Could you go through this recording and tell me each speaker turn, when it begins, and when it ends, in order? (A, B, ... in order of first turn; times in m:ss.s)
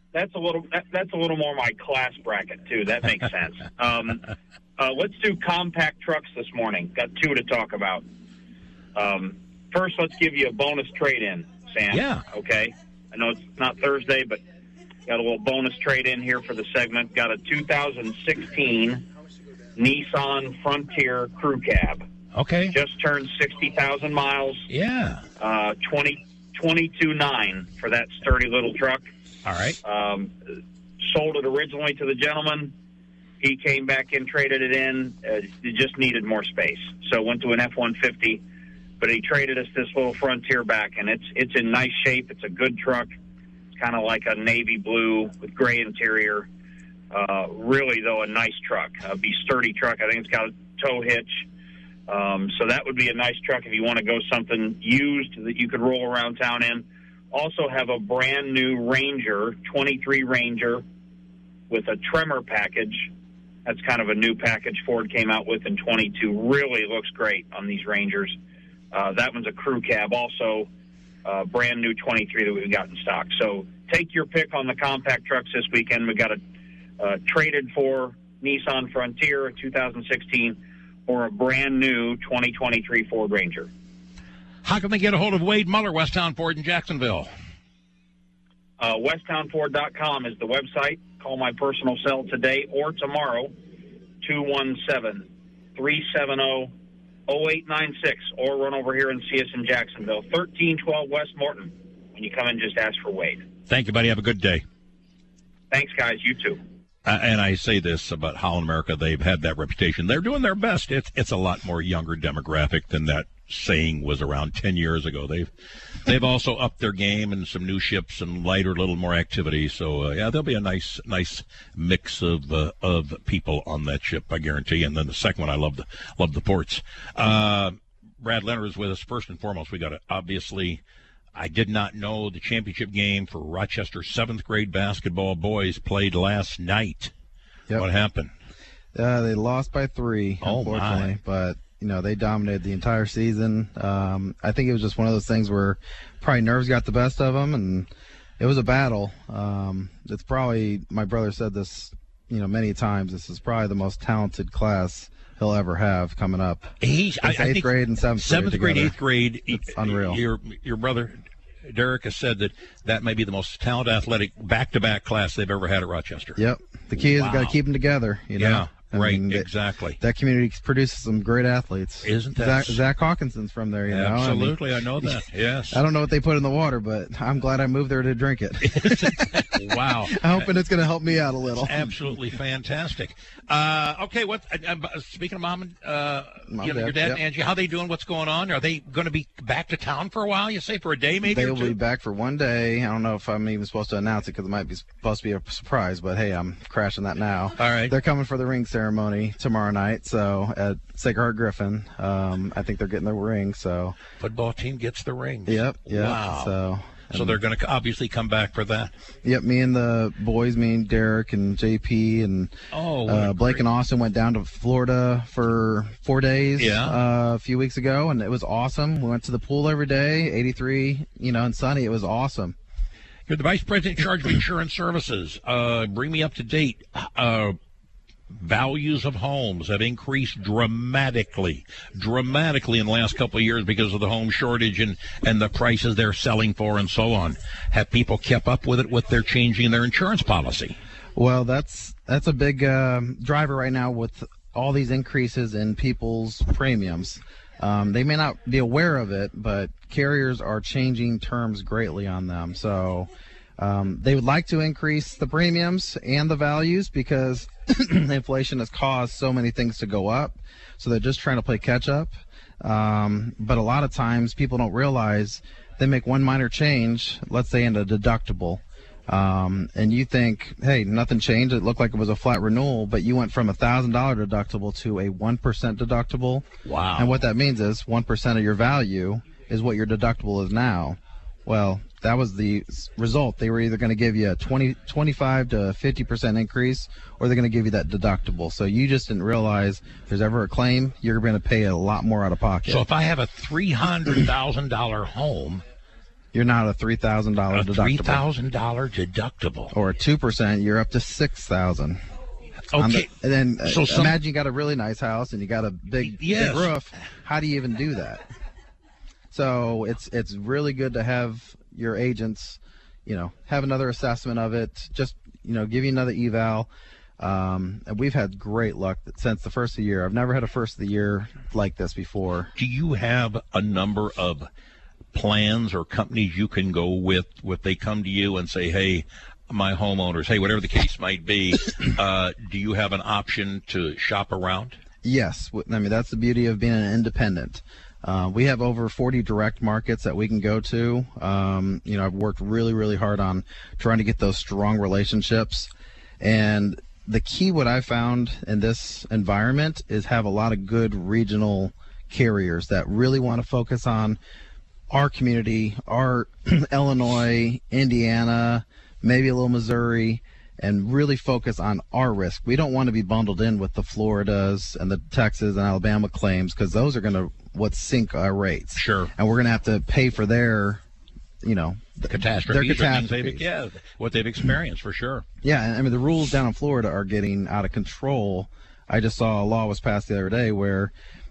0:00.1-0:04.2 A
0:04.8-0:08.0 A
0:08.9-0:14.4 A
0:11.9-0:12.2 B
0:15.0-0:19.0 A
0:19.8-0:22.0 A
0:22.3-0:22.7 B
0:22.7-0:24.6 A
0:24.7-0:25.2 B
0:25.4-0:29.0 A
0:29.4-0:29.8 B
0:29.8-0:30.3 A
0:31.0-0:32.7 A
0:33.4-0:38.4 A
0:39.0-0:43.1 A
0:43.8-0:46.5 A
0:47.1-0:51.4 A
0:52.1-1:00.8 A
1:01.7-1:03.1 A
1:03.6-1:08.3 A
1:08.9-1:10.7 A
1:11.2-1:16.4 A
1:17.0-1:23.7 A
1:24.6-1:27.3 B
1:28.8-1:33.5 A
1:34.2-1:36.7 A
1:37.3-1:43.4 A
1:43.7-1:44.6 B
1:45.7-1:46.6 A
1:47.0-1:55.5 B
1:56.0-2:10.8 B
2:11.3-2:17.1 B
2:17.7-2:18.3 B
2:18.9-2:27.9 C
2:20.4-2:21.1 B
2:28.4-2:38.9 C
2:36.8-2:41.1 B
2:39.5-2:40.2 C
2:41.7-2:46.4 B
2:46.4-2:49.5 C
2:47.0-2:47.6 B
2:48.4-2:50.0 B
2:50.0-2:55.2 C
2:52.0-2:52.8 B
2:53.9-2:55.8 B
2:55.7-2:59.4 C
2:58.6-3:00.5 B
3:00.0-3:02.2 C
3:01.6-3:11.8 B
3:06.5-3:07.2 C
3:11.2-3:24.0 C
3:17.6-3:17.9 B
3:24.2-3:26.5 B
3:25.4-3:27.4 C
3:27.1-3:28.9 B
3:29.2-3:42.5 C
3:32.7-3:33.6 B
3:36.6-3:37.0 B
3:43.3-3:47.6 B
3:48.3-4:00.8 B
4:01.2-4:52.8 C
4:36.6-4:37.1 B
4:52.7-4:55.6 B
4:56.3-4:58.2 C
4:57.5-4:59.7 B
4:59.7-5:02.0 C
5:02.7-5:03.1 B
5:02.7-5:08.2 C
5:03.6-5:04.2 B
5:06.1-5:06.8 B
5:09.3-5:16.7 C
5:17.2-5:22.5 C
5:22.6-5:24.5 B
5:25.1-5:34.8 B
5:35.0-5:45.7 C
5:46.2-5:54.2 C
5:54.9-6:10.8 C
6:08.8-6:09.1 B
6:11.4-6:13.4 C
6:12.1-6:15.2 B
6:15.4-6:20.9 C